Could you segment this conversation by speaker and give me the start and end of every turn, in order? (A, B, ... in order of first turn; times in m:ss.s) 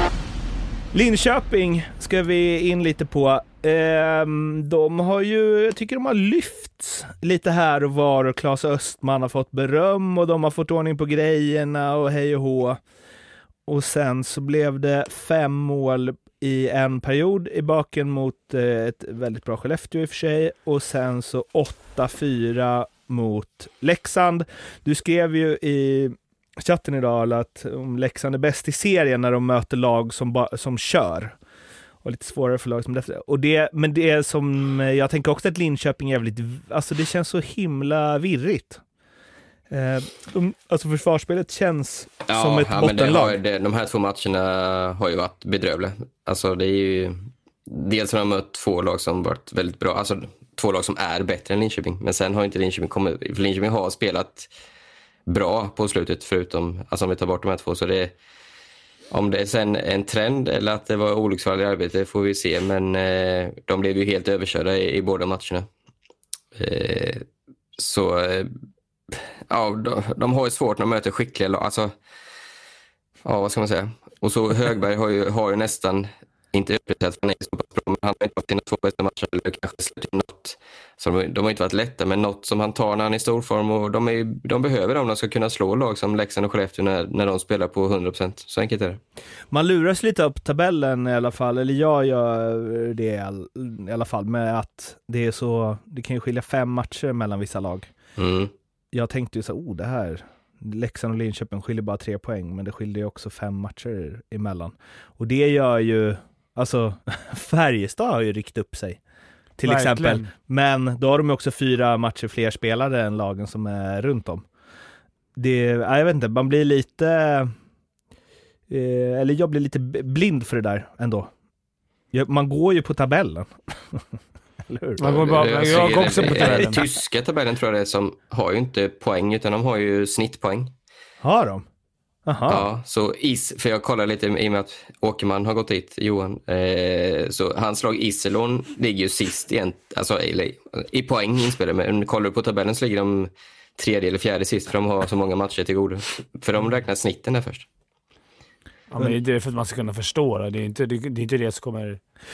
0:00.9-0:12.8 A
0:13.7-0:31.4 A
0:32.0-0:38.8 A
0:39.7-0:43.4 A
0:42.3-0:54.5 B
0:55.3-0:58.1 B
0:59.1-1:05.7 B
1:06.5-1:07.2 B
1:07.8-1:08.5 B
1:09.1-1:11.9 B
1:13.2-1:29.0 B
1:29.5-1:37.9 A
1:38.2-1:38.5 B
1:38.9-1:49.0 A
1:49.6-1:54.4 A
1:49.6-1:50.3 C
1:55.4-1:57.5 A
1:58.7-2:01.3 A
2:02.1-2:04.1 A
2:04.6-2:05.1 A
2:05.0-2:06.8 C
2:05.0-2:10.7 B
2:05.6-2:06.9 A
2:11.2-2:11.6 A
2:12.2-2:12.6 A
2:12.5-2:27.6 B
2:28.9-2:32.0 C